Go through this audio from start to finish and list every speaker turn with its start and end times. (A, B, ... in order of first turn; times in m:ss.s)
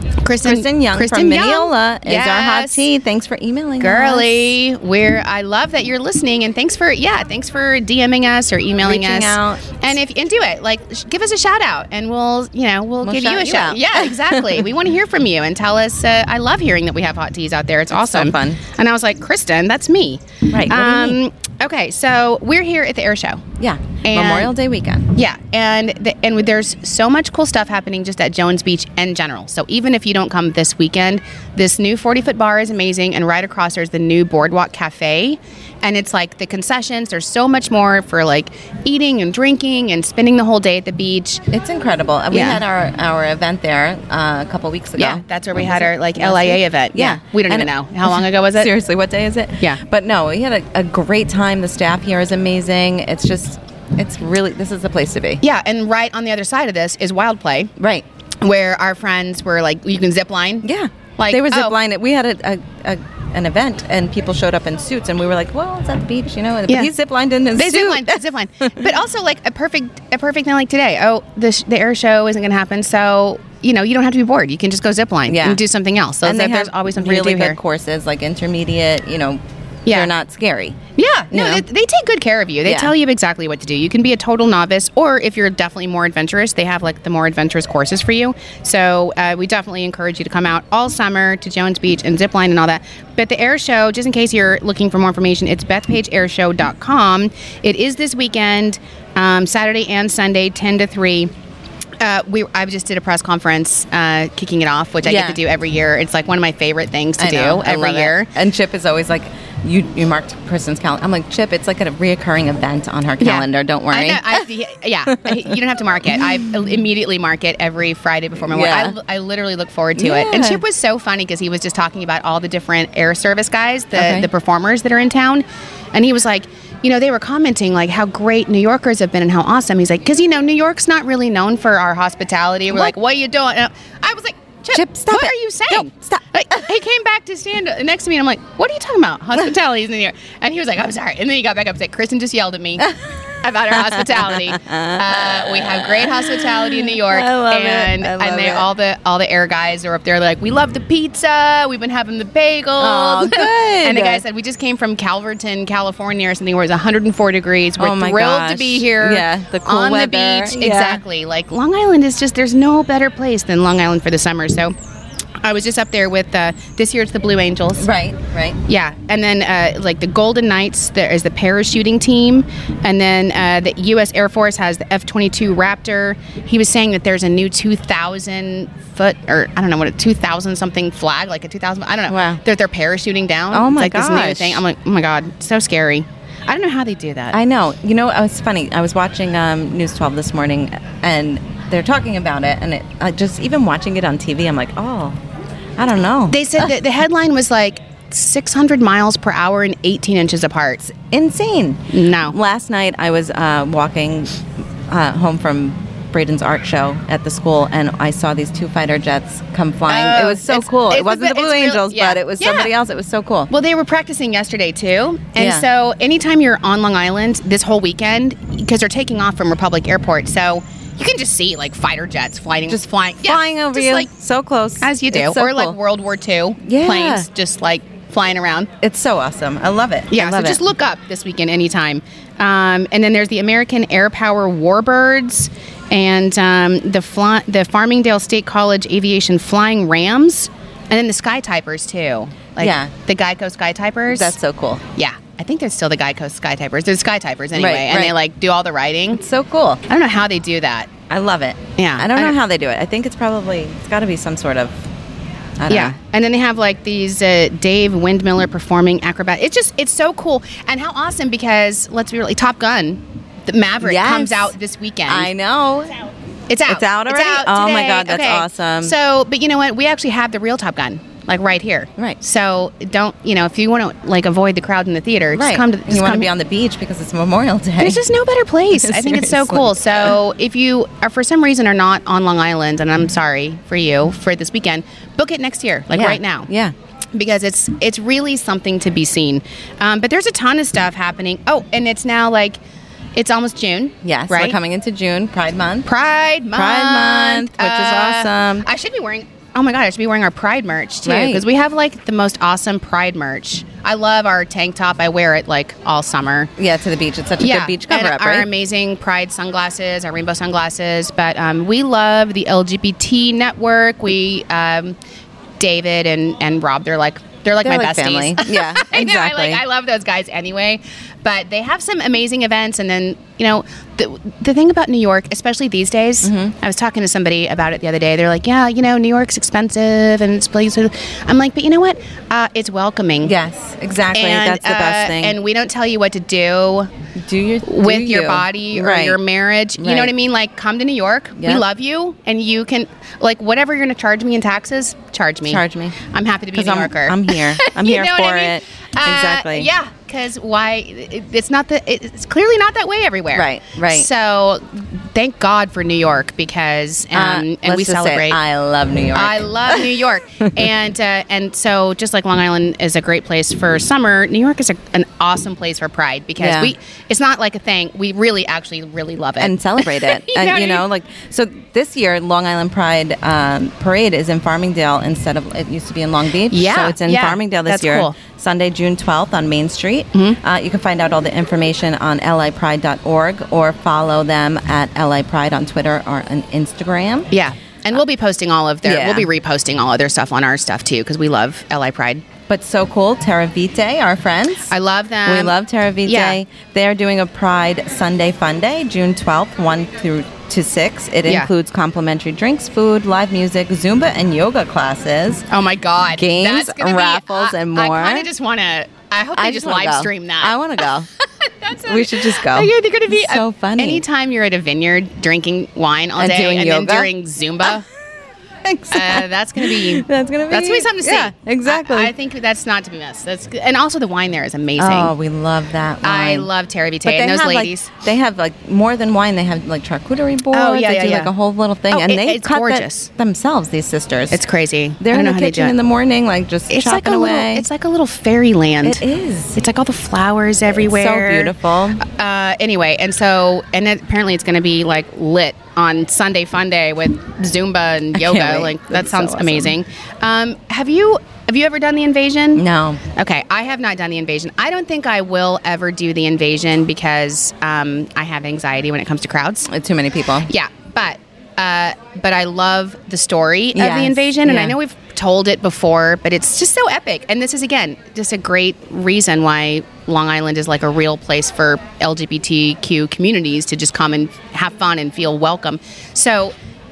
0:00.2-0:02.9 A
0:00.4-0:04.5 B
0:03.8-0:23.4 A
0:08.8-0:09.8 B
0:13.0-0:14.7 B
0:17.9-0:18.6 B
0:20.5-0:21.2 B
0:23.6-0:25.1 B
0:24.0-0:24.5 A
0:25.1-0:41.4 A
0:41.5-0:55.4 B
0:42.3-0:42.6 A
0:45.0-0:48.7 A
0:55.4-0:57.7 A
0:57.8-0:58.0 B
0:58.4-1:00.7 A
1:00.6-1:08.9 B
1:01.2-1:01.7 A
1:07.5-1:17.6 A
1:15.3-1:15.6 B
1:16.2-1:20.8 B
1:19.8-1:20.1 A
1:21.0-1:41.3 A
1:21.3-1:21.6 B
1:22.6-1:22.9 B
1:42.0-1:48.3 A
1:45.0-1:45.4 B
1:47.2-1:54.4 B
1:53.2-2:44.7 A
1:55.2-1:55.5 B
1:56.2-1:56.4 B
1:58.5-1:59.0 B
2:00.0-2:00.6 B
2:03.9-2:04.3 B
2:14.7-2:16.7 B
2:23.7-2:28.7 B
2:32.8-2:34.2 B
2:37.8-2:41.0 B
2:45.4-2:47.9 A
2:47.8-2:48.6 B
2:48.6-3:07.4 A
3:02.1-3:02.4 B
3:03.5-3:04.6 B
3:07.3-3:15.2 B
3:15.8-3:16.7 B
3:16.3-3:20.8 A
3:20.8-3:33.5 B
3:21.9-3:22.4 A
3:29.9-3:32.7 A
3:33.5-3:44.1 A
3:35.4-3:35.6 B
3:42.7-3:45.8 B
3:44.8-3:48.7 A
3:46.6-3:47.3 B
3:48.8-3:50.6 B
3:50.1-4:04.3 A
4:02.6-4:02.9 B
4:04.1-4:04.8 B
4:05.0-4:09.2 A
4:07.5-4:08.1 B
4:09.1-4:09.8 B
4:09.9-4:10.9 A
4:11.1-4:14.8 B
4:11.8-4:12.4 A
4:15.6-4:16.0 B
4:15.7-4:25.3 A
4:23.8-4:24.5 B
4:25.1-4:25.9 B
4:26.5-4:36.3 A
4:26.7-4:28.9 B
4:35.3-4:38.0 B
4:37.8-4:46.5 A
4:38.7-4:40.1 B
4:45.9-4:46.7 B
4:47.1-4:52.6 A
4:53.2-4:54.6 A
4:54.0-4:55.9 B
4:55.8-5:06.5 A
4:56.5-4:58.7 B
5:01.0-5:01.4 B
5:06.6-5:08.5 B
5:07.4-5:15.0 A
5:15.6-5:33.3 A
5:17.6-5:19.6 B
5:26.2-5:26.5 B
5:33.2-5:35.4 B
5:34.1-5:36.9 A
5:37.2-5:39.2 B
5:37.6-5:58.4 A
5:39.8-5:40.1 B
5:41.4-5:41.6 B
5:45.4-5:46.0 B
5:46.5-5:49.7 B
5:53.3-5:54.1 B
5:57.1-6:00.5 B
5:59.1-6:10.8 A
6:06.4-6:06.7 B
6:09.4-6:27.3 B
6:16.5-6:18.2 A
6:20.1-6:20.4 A
6:27.3-6:32.2 A
6:28.8-6:29.3 B
6:32.5-6:34.7 B
6:34.7-6:36.4 A
6:35.2-6:45.4 B
6:41.2-6:41.5 A
6:45.5-6:57.8 A
6:46.1-6:48.3 B
6:49.4-6:51.1 B
6:51.8-6:54.0 B
6:56.2-6:57.1 B
6:58.6-7:02.1 B
6:58.9-7:05.1 A
7:04.8-7:06.5 B
7:06.0-7:07.9 A
7:07.0-7:14.4 B
7:10.5-7:11.3 A
7:11.9-7:13.1 A
7:14.3-7:15.8 A
7:15.0-7:17.7 B
7:16.7-7:19.0 A
7:18.8-7:19.6 B
7:19.6-7:39.7 A
7:20.7-7:22.0 B
7:28.1-7:29.7 B
7:32.6-7:33.0 B
7:39.7-7:40.5 B
7:40.4-7:56.5 A
7:43.7-7:44.8 B